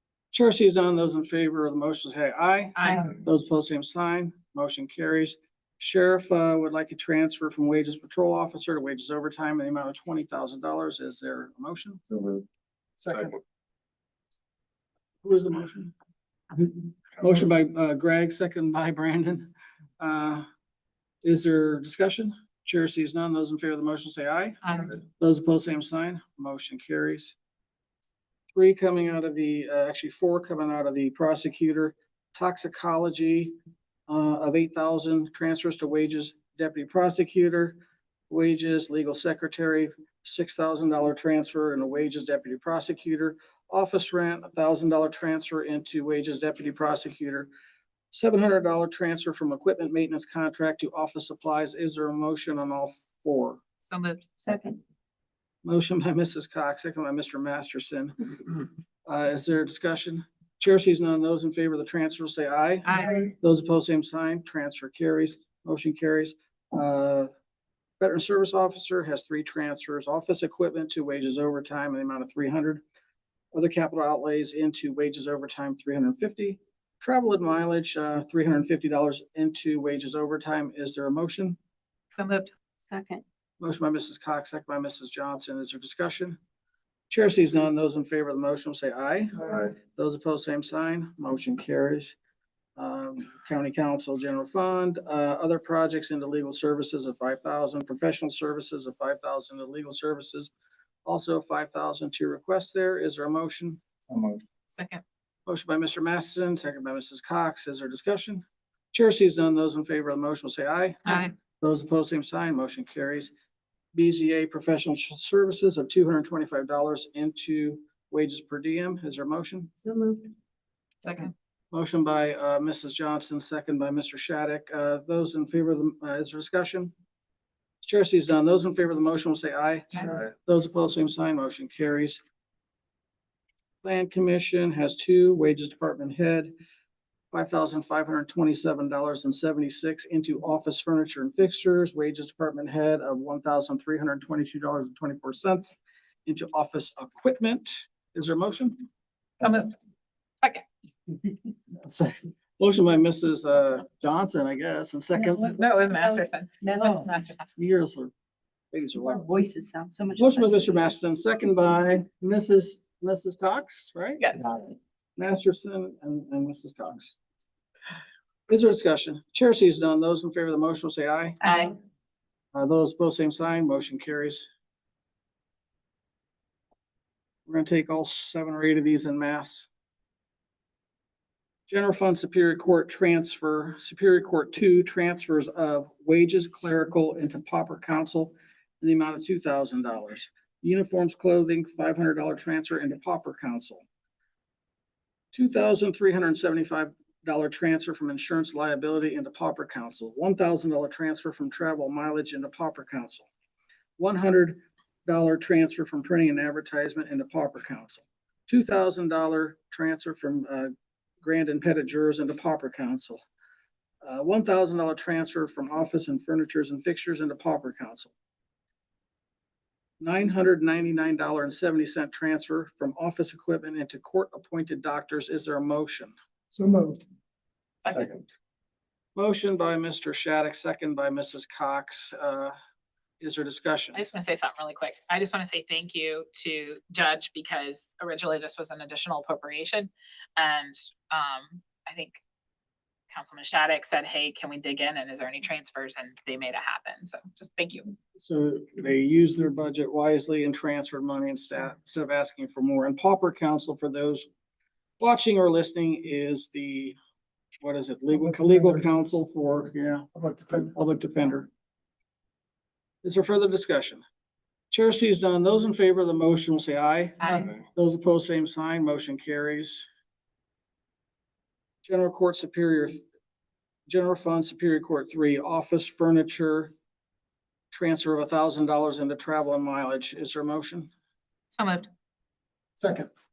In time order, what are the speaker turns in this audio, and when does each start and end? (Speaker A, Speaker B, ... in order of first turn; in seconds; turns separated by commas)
Speaker A: 0.3-12.0, Speaker B: 2.8-3.1, Speaker A: 15.2-15.9, Speaker A: 16.5-20.4, Speaker A: 21.2-27.4, Speaker B: 24.6-25.0, Speaker A: 28.5-33.5, Speaker A: 34.1-37.8, Speaker A: 38.3-47.5, Speaker A: 48.1-53.6, Speaker B: 53.8-54.2, Speaker C: 54.4-54.8, Speaker A: 55.6-67.3, Speaker B: 62.8-63.3, Speaker A: 68.0-72.8, Speaker A: 73.5-81.6, Speaker B: 82.1-82.5, Speaker C: 82.9-83.2, Speaker A: 83.6-86.4, Speaker A: 87.1-92.2, Speaker A: 92.8-100.5, Speaker A: 101.0-103.8, Speaker B: 104.7-105.0, Speaker A: 105.5-113.3, Speaker B: 111.0-111.3, Speaker A: 113.9-119.7, Speaker C: 119.8-120.3, Speaker B: 121.0-121.3, Speaker A: 121.7-126.9, Speaker A: 127.8-132.2, Speaker B: 129.9-130.2, Speaker A: 133.8-136.5, Speaker A: 137.3-145.7, Speaker A: 146.2-148.8, Speaker B: 149.4-149.7, Speaker A: 151.8-155.6, Speaker B: 155.2-157.5, Speaker C: 156.1-157.1, Speaker A: 157.6-158.1, Speaker A: 158.7-159.2, Speaker C: 159.0-160.8, Speaker A: 160.2-164.2, Speaker B: 164.2-164.5, Speaker A: 165.2-167.2, Speaker A: 168.5-171.4, Speaker B: 171.4-171.7, Speaker A: 172.5-174.5, Speaker A: 177.5-179.7, Speaker A: 181.7-193.8, Speaker A: 195.3-203.3, Speaker A: 204.0-213.2, Speaker A: 214.0-218.1, Speaker A: 220.0-226.1, Speaker D: 226.5-227.0, Speaker B: 227.8-228.1, Speaker A: 229.2-232.5, Speaker A: 233.2-234.0, Speaker B: 233.9-242.2, Speaker B: 243.1-247.9, Speaker A: 248.2-254.3, Speaker A: 255.0-257.0, Speaker A: 257.6-261.5, Speaker D: 258.3-258.8, Speaker D: 260.1-260.6, Speaker A: 263.0-264.0, Speaker A: 264.7-269.9, Speaker B: 267.2-267.5, Speaker A: 271.8-273.0, Speaker A: 273.9-276.7, Speaker A: 277.7-280.9, Speaker B: 281.5-281.9, Speaker D: 282.8-283.1